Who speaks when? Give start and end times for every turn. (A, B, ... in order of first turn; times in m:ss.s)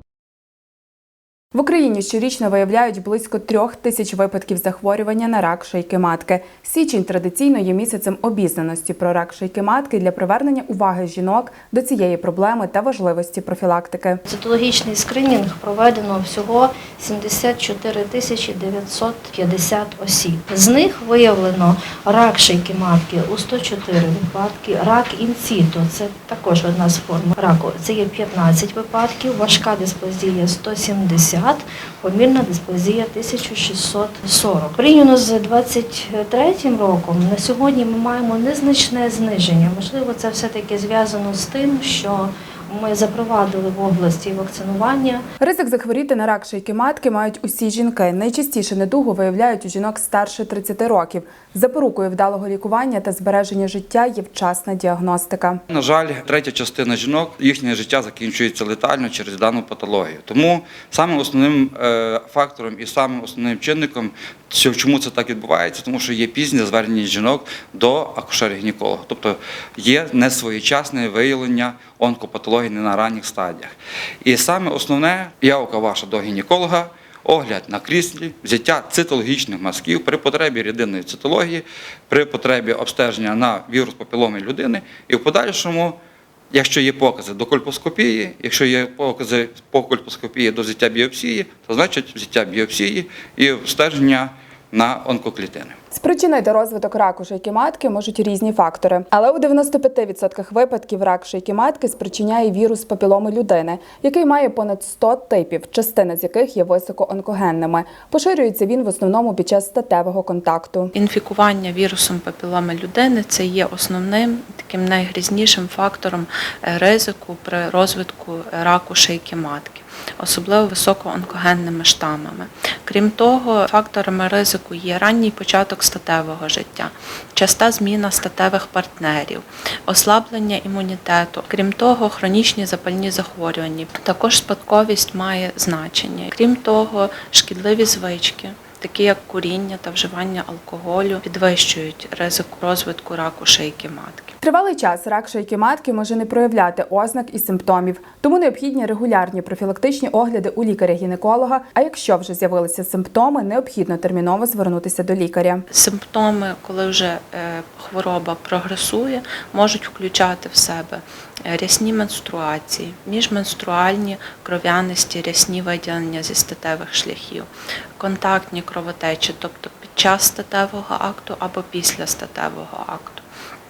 0:01.5-0:14.2 A
0:14.3-0:45.2 B
0:45.4-0:55.6 A
0:55.7-1:13.7 C
1:14.2-1:26.0 C
1:26.5-1:35.8 C
1:35.9-1:50.9 A
1:50.9-2:24.3 D
2:24.4-2:35.7 A
2:35.7-2:53.2 D